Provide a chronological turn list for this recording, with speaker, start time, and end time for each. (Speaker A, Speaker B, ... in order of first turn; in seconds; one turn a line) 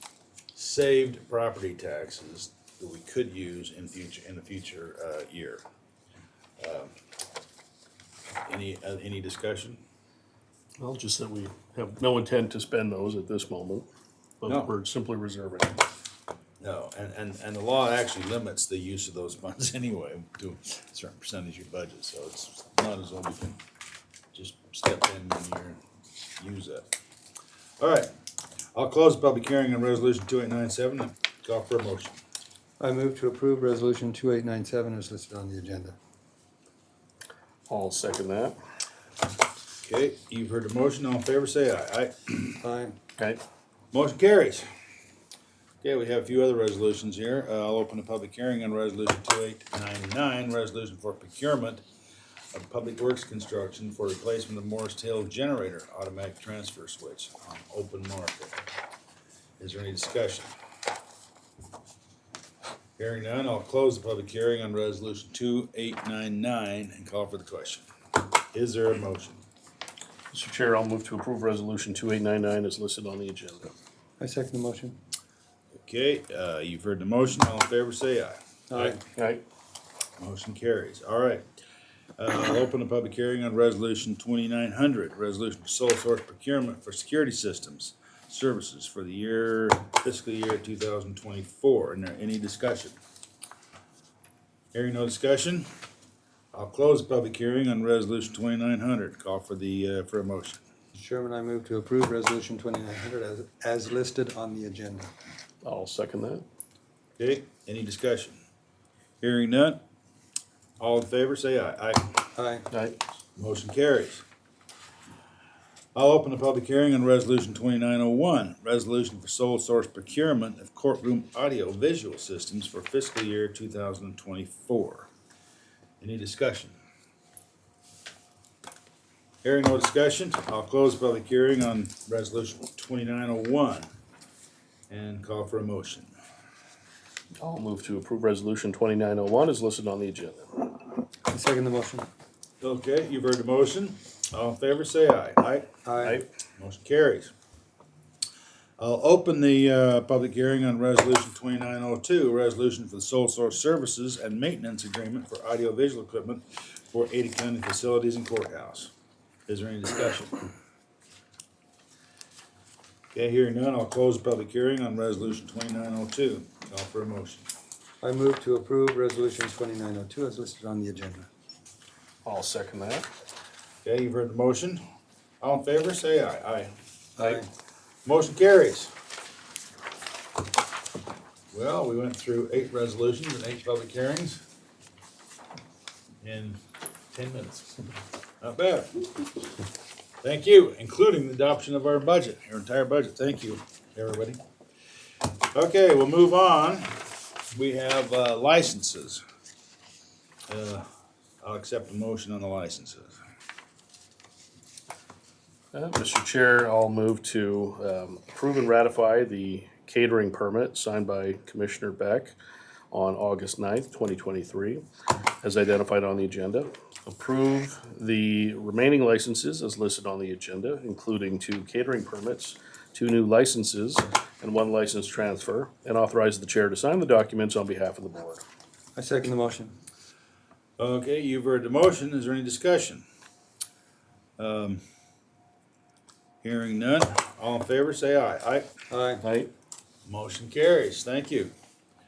Speaker A: 0.5-5.6
Speaker A: 6.6-6.9
Speaker A: 8.5-9.8
Speaker B: 10.8-13.9
Speaker B: 14.4-15.8
Speaker A: 14.4-14.7
Speaker A: 16.6-23.6
Speaker A: 24.3-25.8
Speaker A: 26.4-26.9
Speaker A: 27.8-28.1
Speaker A: 28.7-32.2
Speaker C: 32.8-36.0
Speaker B: 37.7-38.6
Speaker A: 39.8-42.6
Speaker C: 42.6-43.0
Speaker A: 43.9-44.7
Speaker A: 45.8-51.8
Speaker A: 52.5-58.5
Speaker A: 59.6-60.5
Speaker A: 63.0-67.9
Speaker A: 68.5-69.4
Speaker B: 70.3-73.7
Speaker C: 74.2-75.0
Speaker A: 75.8-79.0
Speaker C: 78.7-79.0
Speaker B: 79.2-79.4
Speaker A: 80.2-81.5
Speaker A: 82.2-93.0
Speaker A: 94.7-95.7
Speaker A: 96.5-100.6
Speaker C: 101.0-105.1
Speaker B: 105.6-106.4
Speaker A: 107.2-108.4
Speaker A: 109.2-109.8
Speaker A: 110.8-112.3
Speaker C: 112.4-112.7
Speaker B: 112.7-113.0
Speaker A: 113.4-114.2
Speaker A: 116.0-125.1
Speaker A: 126.0-126.8
Speaker A: 129.4-133.9
Speaker A: 134.9-136.1
Speaker B: 137.4-140.5
Speaker C: 141.3-142.1
Speaker A: 142.6-145.7
Speaker C: 145.8-146.2
Speaker A: 146.6-147.3
Speaker A: 148.8-158.9
Speaker A: 159.5-160.4
Speaker A: 163.1-167.5
Speaker C: 168.0-171.3
Speaker B: 172.2-173.1
Speaker A: 173.8-174.8
Speaker A: 175.4-176.7
Speaker C: 177.2-177.5
Speaker A: 178.0-178.9
Speaker A: 181.5-184.4
Speaker A: 186.2-186.6
Speaker A: 187.1-187.8
Speaker A: 188.4-189.1
Speaker A: 190.2-194.4
Speaker A: 195.5-196.9
Speaker A: 197.5-199.2
Speaker A: 200.5-200.9
Speaker A: 201.4-203.2
Speaker B: 205.7-212.3
Speaker B: 212.9-214.8
Speaker B: 215.4-228.4
Speaker C: 228.9-229.8
Speaker A: 230.8-233.0
Speaker A: 234.4-234.8
Speaker A: 236.4-238.7
Speaker C: 238.9-239.2
Speaker B: 239.2-239.5
Speaker A: 240.1-241.5